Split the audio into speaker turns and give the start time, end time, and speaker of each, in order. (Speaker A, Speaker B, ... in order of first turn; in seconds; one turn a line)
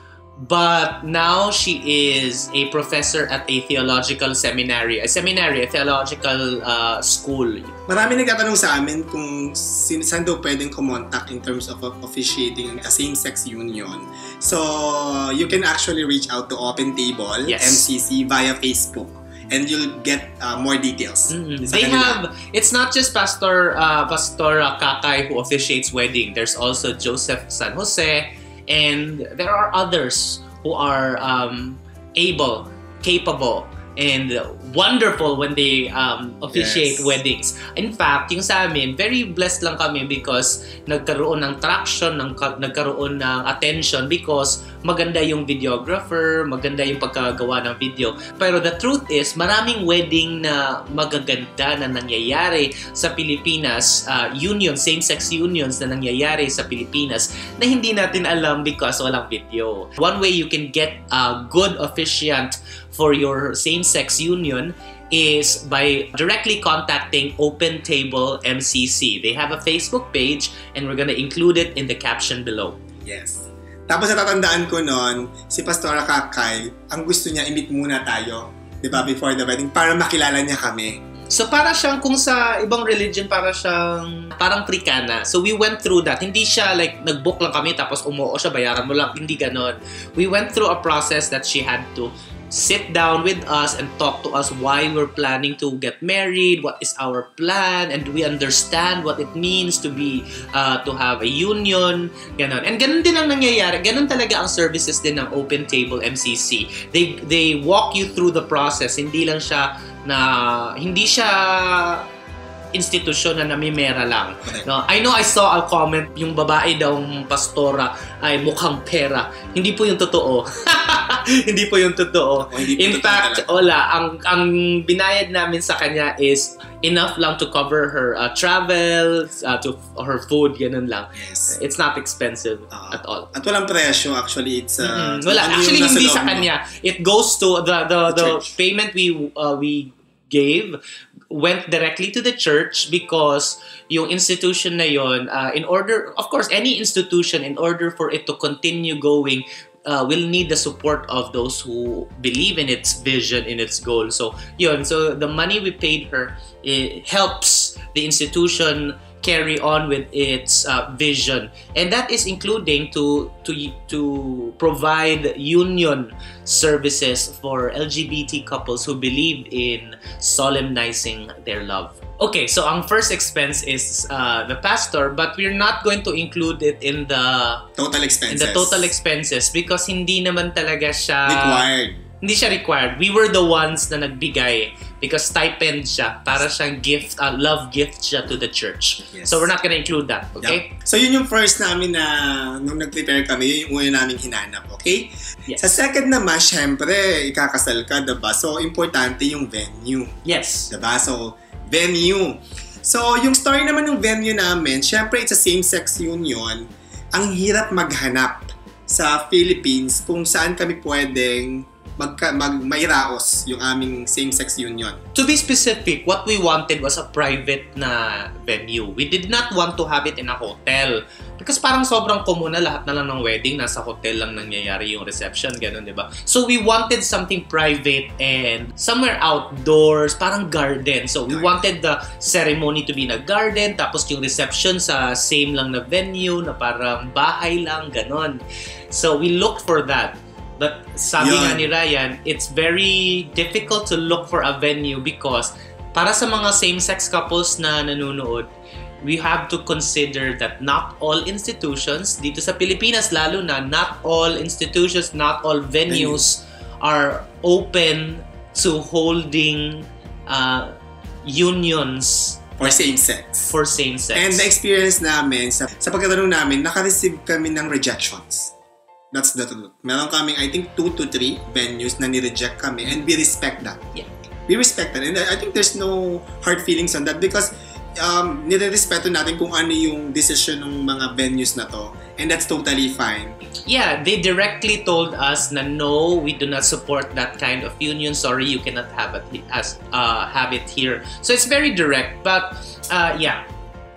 Speaker A: 0.4-7.7
Speaker B: 7.9-22.2
Speaker A: 17.4-17.8
Speaker A: 21.3-72.8
Speaker B: 36.5-37.2
Speaker B: 73.0-81.0
Speaker A: 81.3-112.0
Speaker A: 112.7-133.3
Speaker B: 122.4-123.6
Speaker B: 131.2-131.6
Speaker B: 132.7-136.5
Speaker A: 134.8-177.7
Speaker B: 138.1-138.6
Speaker B: 177.8-178.9
Speaker A: 178.3-181.7
Speaker B: 181.2-182.0
Speaker A: 182.2-190.7
Speaker B: 189.1-189.5
Speaker B: 190.4-200.2
Speaker A: 200.2-200.7
Speaker B: 200.7-215.0
Speaker A: 215.1-248.5
Speaker B: 231.3-231.6
Speaker B: 241.2-241.7
Speaker A: 249.0-260.7
Speaker B: 255.9-256.2
Speaker A: 261.2-262.9
Speaker B: 262.6-263.5
Speaker A: 263.4-264.5
Speaker B: 264.1-268.5
Speaker B: 269.1-273.9
Speaker B: 274.5-283.4
Speaker A: 283.7-293.4